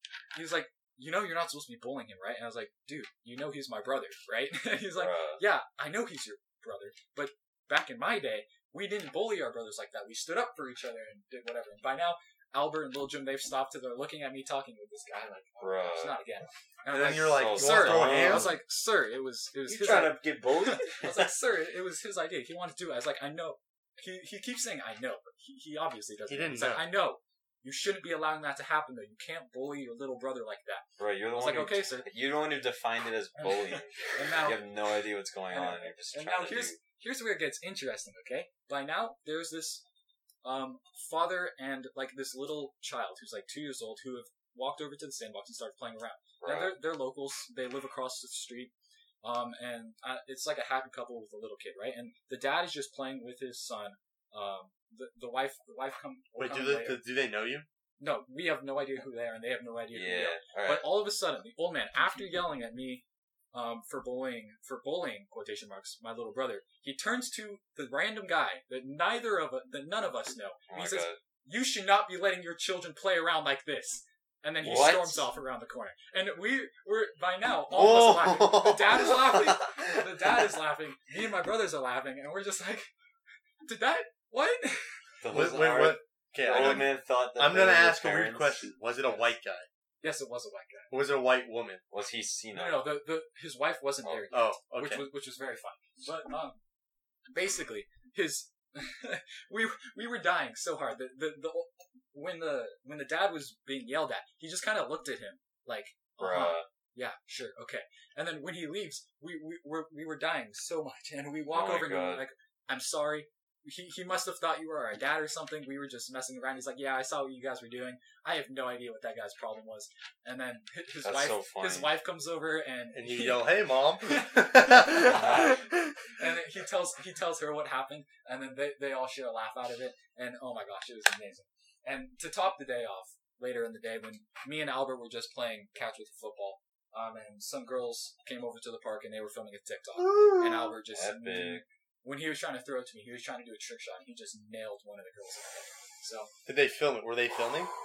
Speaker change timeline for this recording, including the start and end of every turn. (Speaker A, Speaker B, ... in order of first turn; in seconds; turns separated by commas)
Speaker A: 0.3-32.1, Speaker B: 4.9-5.4, Speaker B: 15.6-16.2, Speaker C: 16.9-18.6, Speaker B: 17.3-18.6, Speaker B: 19.6-21.3, Speaker C: 26.3-26.9, Speaker B: 31.0-36.8, Speaker A: 33.4-34.7, Speaker A: 35.5-39.8, Speaker A: 40.4-48.7, Speaker B: 46.4-46.7, Speaker A: 49.2-57.0, Speaker C: 56.4-57.6, Speaker A: 58.0-82.9, Speaker B: 59.9-61.0, Speaker B: 70.7-71.2, Speaker B: 74.6-75.3, Speaker C: 77.7-79.1, Speaker A: 83.6-84.9, Speaker B: 85.2-88.7, Speaker C: 85.3-89.7, Speaker A: 90.0-90.9, Speaker C: 90.9-91.8, Speaker B: 91.9-92.9, Speaker A: 92.5-96.6, Speaker C: 94.3-95.0, Speaker A: 97.3-146.3, Speaker B: 106.2-106.7, Speaker B: 111.5-112.2, Speaker B: 121.0-122.0, Speaker C: 122.9-125.9, Speaker B: 125.0-125.5, Speaker C: 140.0-140.7, Speaker B: 140.9-141.6, Speaker C: 146.4-147.7